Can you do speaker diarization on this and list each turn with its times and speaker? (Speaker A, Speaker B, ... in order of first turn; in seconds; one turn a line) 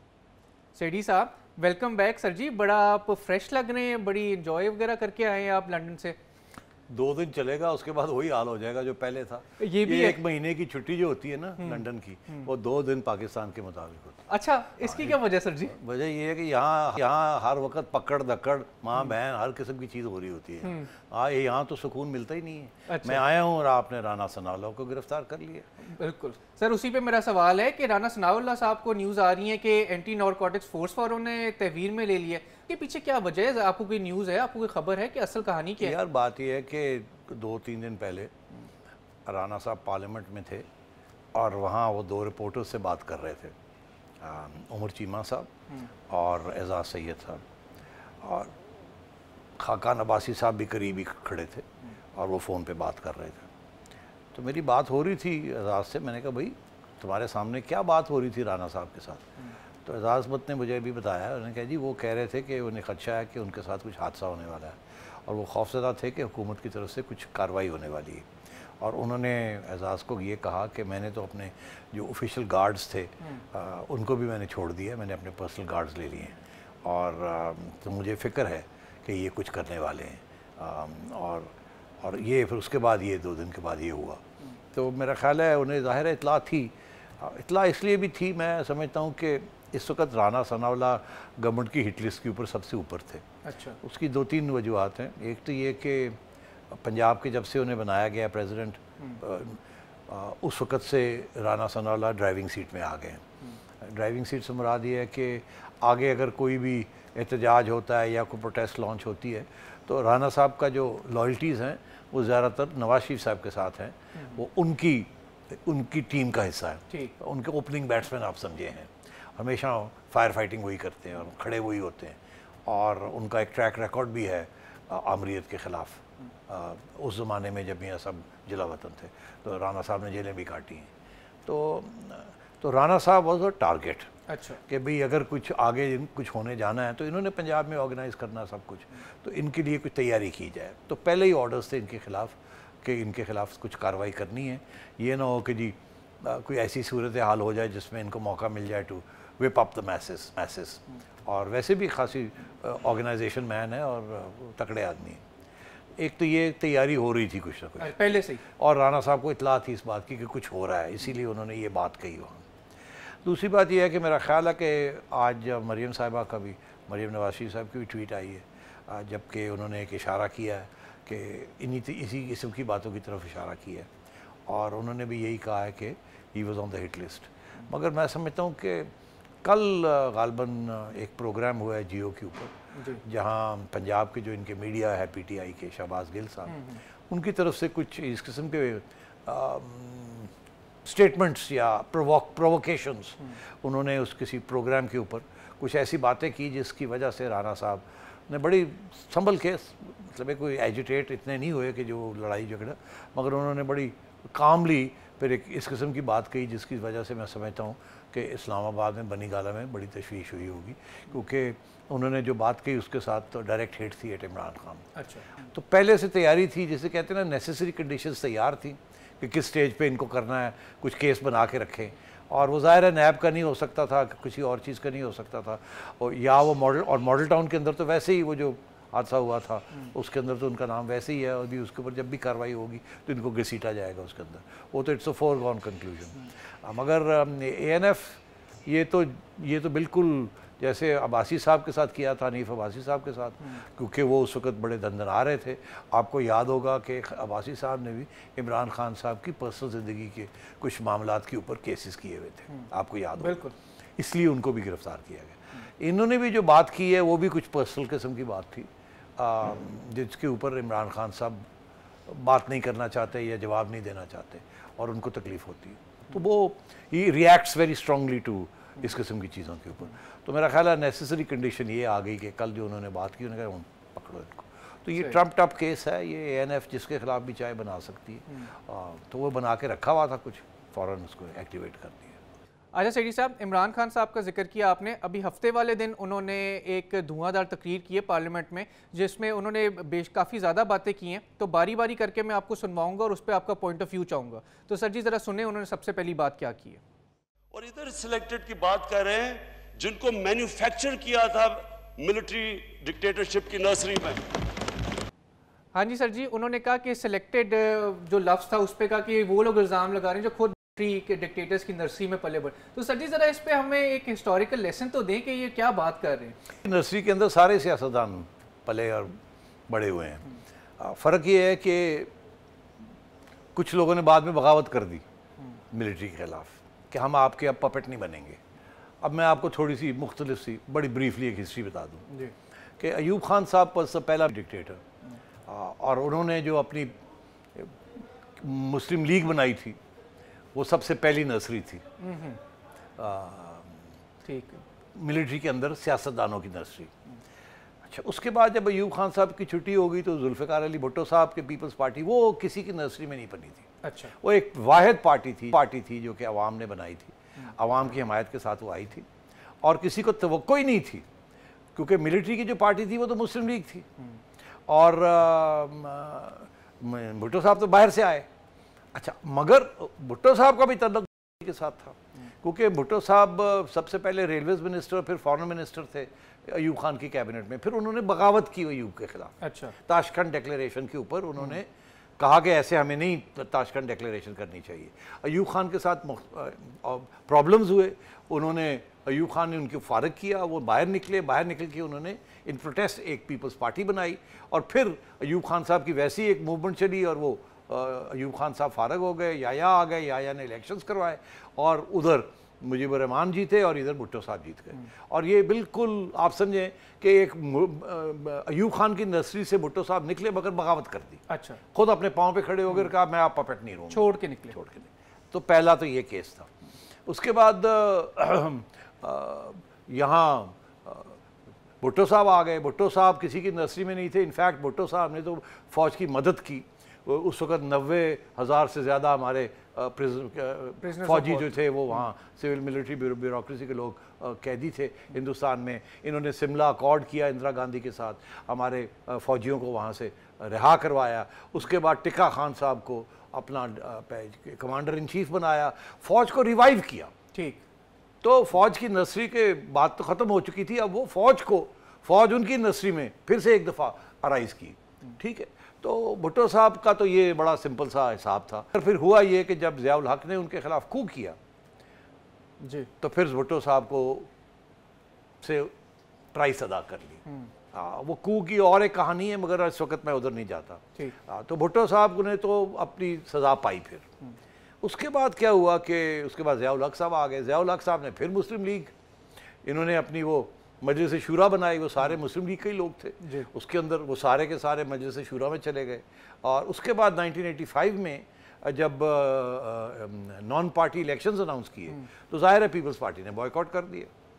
Speaker A: 0.7-6.2
Speaker B: 6.9-14.2
Speaker A: 9.6-10.2
Speaker A: 11.6-12.5
Speaker A: 14.3-15.7
Speaker B: 14.8-25.7
Speaker A: 22.9-23.2
Speaker A: 25.8-36.0
Speaker B: 35.8-38.3
Speaker B: 39.3-40.7
Speaker B: 41.4-43.5
Speaker B: 44.2-45.5
Speaker B: 46.1-47.4
Speaker B: 48.2-48.5
Speaker B: 49.6-53.5
Speaker B: 54.3-68.3
Speaker B: 68.8-93.2
Speaker A: 93.5-93.8
Speaker B: 93.8-96.2
Speaker B: 96.7-103.2
Speaker B: 103.8-130.9
Speaker B: 131.4-134.1
Speaker A: 134.3-134.6
Speaker B: 134.7-155.2
Speaker B: 156.0-162.4
Speaker A: 157.8-158.4
Speaker B: 163.2-173.9
Speaker B: 174.5-178.9
Speaker B: 179.4-190.3
Speaker A: 182.8-183.0
Speaker A: 186.5-186.8
Speaker B: 190.8-214.9
Speaker A: 214.9-215.3
Speaker B: 215.4-253.5
Speaker A: 252.5-253.6
Speaker B: 254.0-261.5
Speaker B: 262.1-282.2
Speaker A: 282.8-296.8
Speaker C: 297.5-304.4
Speaker A: 305.7-316.4
Speaker B: 316.6-319.1
Speaker B: 319.7-322.1
Speaker B: 323.6-325.0
Speaker B: 325.7-328.4
Speaker B: 329.0-332.1
Speaker B: 332.8-334.8
Speaker B: 335.5-336.9
Speaker B: 337.6-339.8
Speaker B: 340.6-341.8
Speaker A: 342.0-342.4
Speaker B: 343.0-343.8
Speaker A: 344.2-344.6
Speaker B: 344.9-346.9
Speaker B: 347.9-353.7
Speaker A: 353.8-354.1
Speaker B: 354.2-359.1
Speaker B: 359.6-361.1
Speaker B: 361.8-363.9
Speaker B: 364.7-368.3
Speaker B: 368.9-381.7
Speaker A: 379.4-379.7
Speaker B: 382.2-416.5
Speaker A: 411.3-411.6
Speaker A: 413.9-414.6
Speaker B: 417.1-421.1
Speaker B: 421.8-447.1
Speaker A: 430.8-431.6
Speaker A: 447.3-447.6
Speaker B: 448.2-461.4
Speaker A: 462.6-462.9
Speaker B: 463.0-464.3
Speaker B: 465.4-465.7
Speaker B: 466.3-474.1
Speaker B: 474.8-478.9
Speaker B: 479.6-494.1